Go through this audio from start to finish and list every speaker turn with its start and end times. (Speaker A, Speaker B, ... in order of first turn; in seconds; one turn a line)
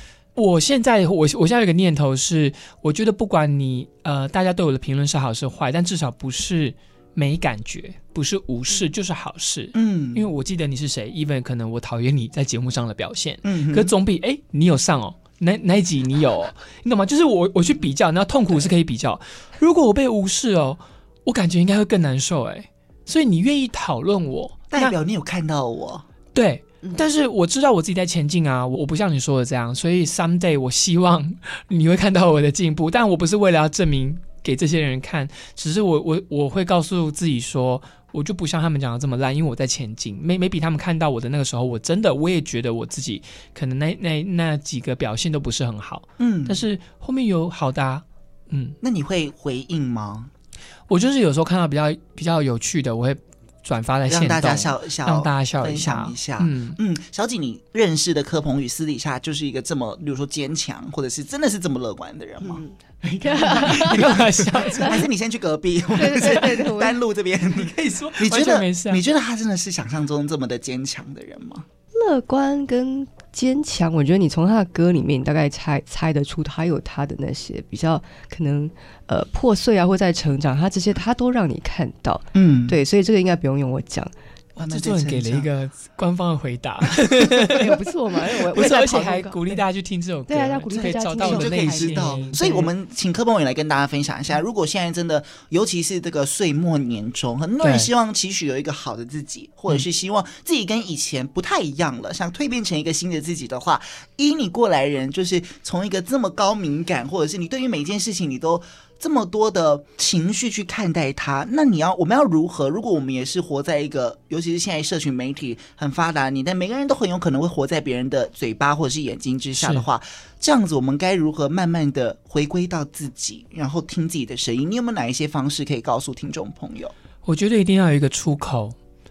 Speaker A: 0.3-24.9
Speaker B: 9.7-10.3
Speaker B: 13.4-13.9
Speaker B: 24.7-26.1
Speaker A: 26.3-48.8
Speaker B: 46.2-46.6
Speaker B: 48.8-50.3
Speaker A: 50.9-56.8
Speaker B: 54.1-62.6
Speaker A: 63.0-65.0
Speaker C: 63.2-64.9
Speaker B: 63.7-71.7
Speaker C: 65.9-67.0
Speaker A: 67.5-69.0
Speaker C: 71.9-84.1
Speaker B: 82.3-82.8
Speaker B: 84.6-85.5
Speaker A: 84.6-87.8
Speaker C: 87.5-89.6
Speaker A: 88.4-92.4
Speaker C: 90.3-92.7
Speaker B: 90.8-126.9
Speaker A: 97.6-97.9
Speaker A: 119.5-119.8
Speaker A: 127.2-128.8